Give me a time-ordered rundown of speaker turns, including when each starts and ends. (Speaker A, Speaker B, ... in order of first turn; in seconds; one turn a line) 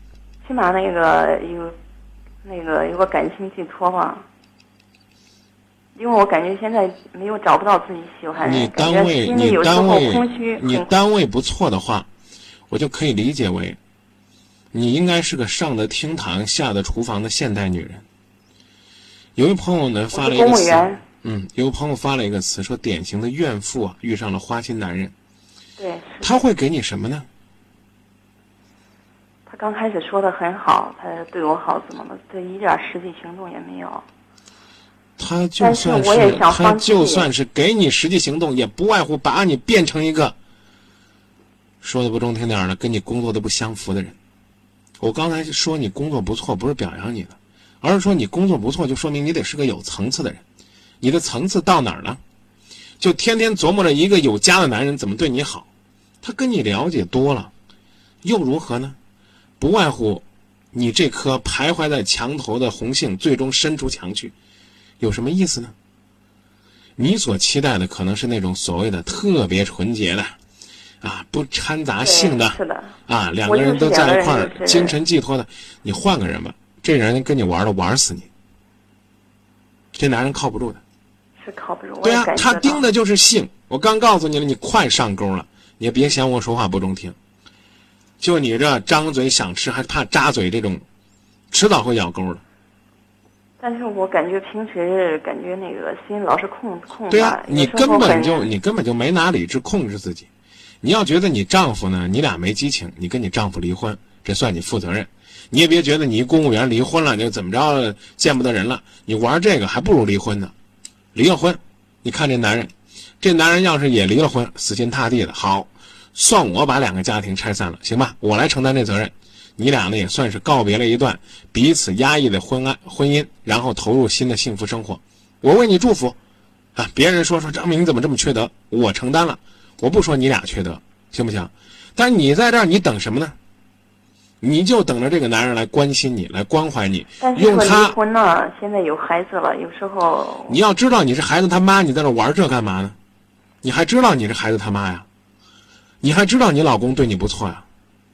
Speaker A: 0.4-1.8
Speaker A: 2.4-4.2
Speaker A: 6.0-10.9
Speaker B: 8.4-12.1
Speaker B: 12.7-13.8
Speaker B: 14.7-18.1
Speaker B: 19.4-25.1
Speaker A: 20.1-21.0
Speaker A: 25.8-26.4
Speaker B: 26.2-27.2
Speaker A: 29.5-34.0
Speaker B: 35.2-40.4
Speaker A: 35.6-37.3
Speaker B: 41.8-44.2
Speaker B: 45.0-50.4
Speaker B: 51.0-52.2
Speaker B: 53.0-55.7
Speaker B: 56.2-57.5
Speaker B: 58.2-59.0
Speaker B: 59.6-64.3
Speaker B: 65.0-65.7
Speaker B: 67.0-70.4
Speaker B: 71.0-78.3
Speaker A: 72.0-75.0
Speaker B: 79.9-80.8
Speaker A: 81.4-82.9
Speaker B: 82.0-87.2
Speaker B: 88.2-90.8
Speaker B: 91.5-92.4
Speaker A: 93.6-98.5
Speaker B: 97.1-100.3
Speaker B: 100.8-110.5
Speaker B: 111.2-126.2
Speaker B: 126.8-133.4
Speaker B: 134.4-138.0
Speaker A: 137.2-140.6
Speaker B: 140.5-143.0
Speaker B: 143.6-145.1
Speaker B: 146.0-147.6